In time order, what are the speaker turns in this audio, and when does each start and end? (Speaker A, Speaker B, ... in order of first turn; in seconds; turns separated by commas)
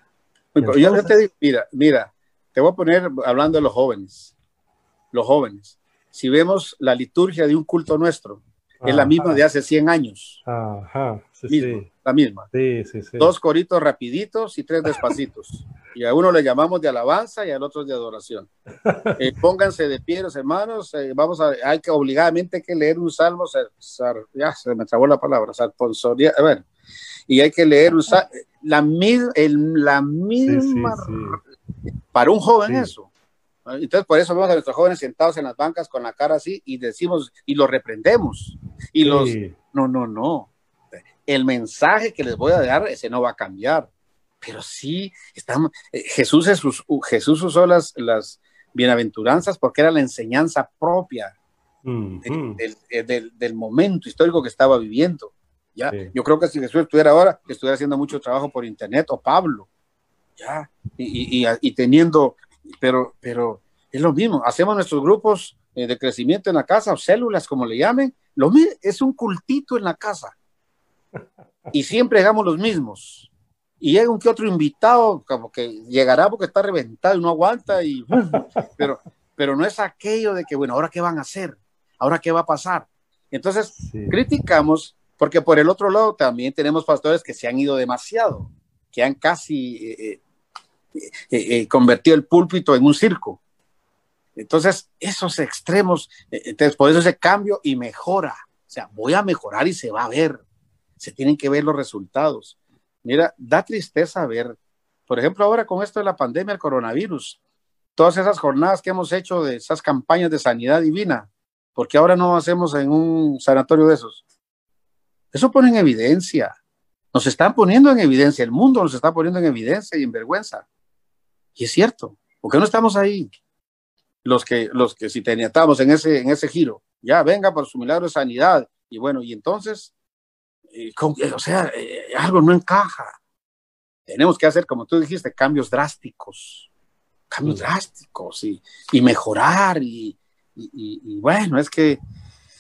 Speaker A: 0.5-4.3, Speaker B: 0.6-1.1, Speaker A: 5.1-10.4, Speaker B: 8.8-9.4, Speaker B: 10.5-11.9, Speaker A: 11.5-12.5, Speaker B: 12.5-13.3, Speaker A: 13.2-18.5, Speaker B: 18.9-19.2, Speaker A: 19.2-26.7, Speaker A: 27.3-31.4, Speaker B: 30.4-31.4, Speaker A: 32.1-33.1, Speaker B: 32.7-32.9, Speaker A: 33.7-40.5, Speaker B: 39.0-39.6, Speaker A: 41.2-43.9, Speaker A: 44.4-51.3, Speaker B: 51.9-52.6, Speaker A: 52.2-59.7, Speaker A: 60.4-70.3, Speaker A: 71.7-90.2, Speaker B: 78.1-78.7, Speaker B: 83.8-84.2, Speaker A: 91.0-93.4, Speaker A: 94.4-100.4, Speaker A: 101.0-104.5, Speaker A: 105.1-107.4, Speaker A: 108.0-114.2, Speaker A: 115.3-116.5, Speaker A: 117.1-120.7, Speaker A: 121.6-123.3, Speaker A: 124.2-129.9, Speaker A: 130.7-133.2, Speaker A: 134.1-136.7, Speaker A: 137.3-142.0